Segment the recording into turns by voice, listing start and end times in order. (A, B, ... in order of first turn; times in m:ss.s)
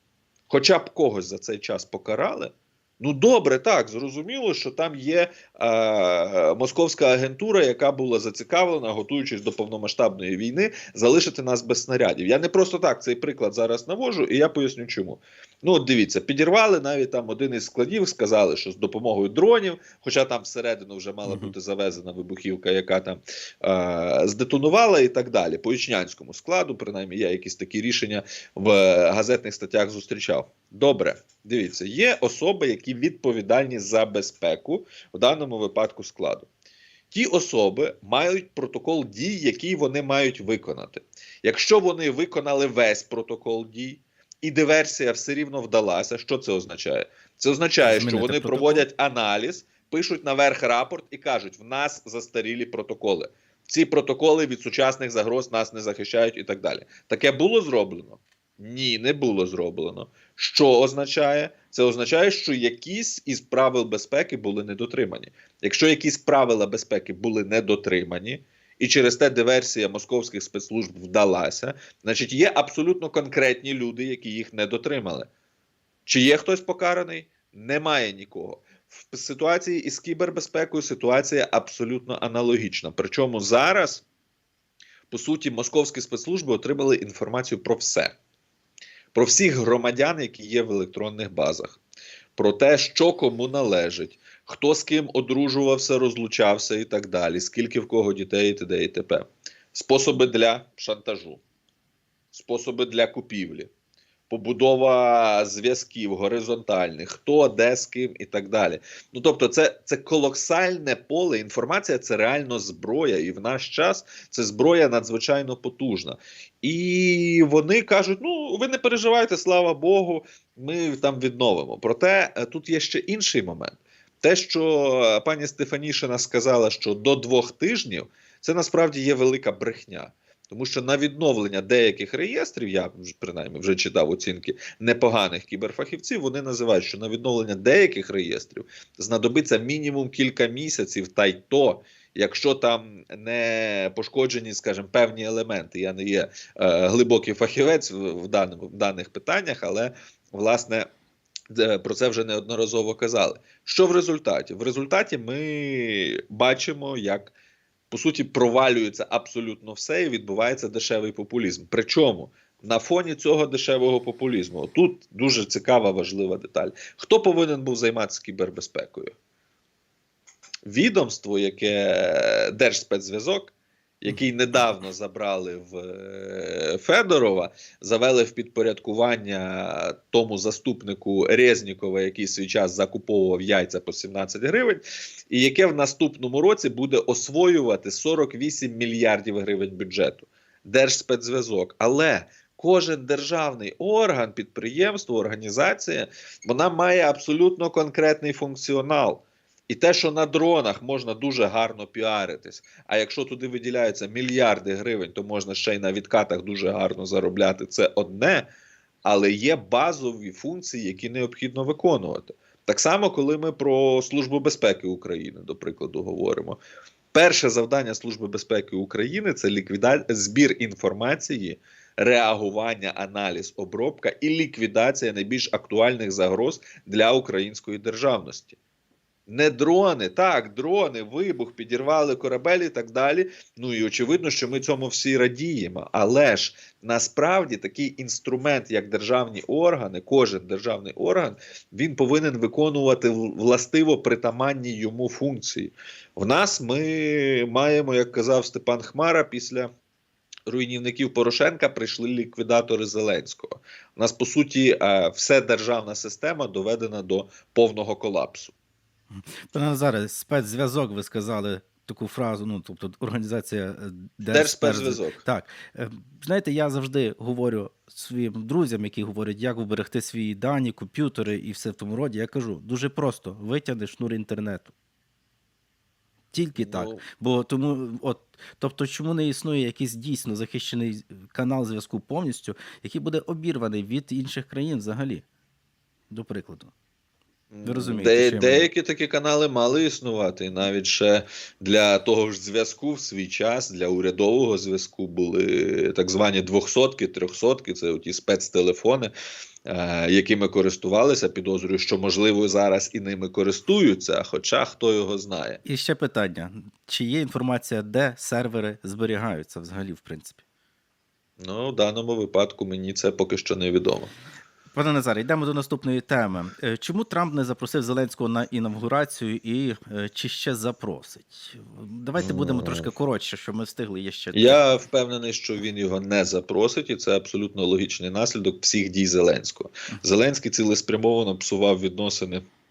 0:00.5-0:36.5 A
0:21.3-0:21.5 B
0:37.1-1:15.3 A
0:47.9-0:48.9 B
1:16.1-1:24.0 A
1:25.1-1:28.2 A
1:29.1-1:31.8 A
1:32.4-1:41.4 A
1:42.3-1:43.7 A
1:44.3-2:30.9 A
2:31.5-2:37.3 A
2:37.9-2:49.2 A
2:50.7-3:28.5 A
3:29.0-3:36.6 A
3:37.1-3:48.6 A
3:49.3-4:09.7 A
4:10.5-4:18.5 A
4:19.2-4:34.7 B
4:24.3-4:25.2 A
4:36.3-4:45.2 B
4:36.6-4:37.0 A
4:46.1-4:46.7 B
4:47.5-4:59.1 A
4:47.6-4:48.7 B
4:59.7-5:05.6 A
5:05.6-5:10.4 B
5:11.4-5:14.1 A
5:14.7-5:24.6 B
5:22.2-5:22.9 A
5:24.3-5:32.4 A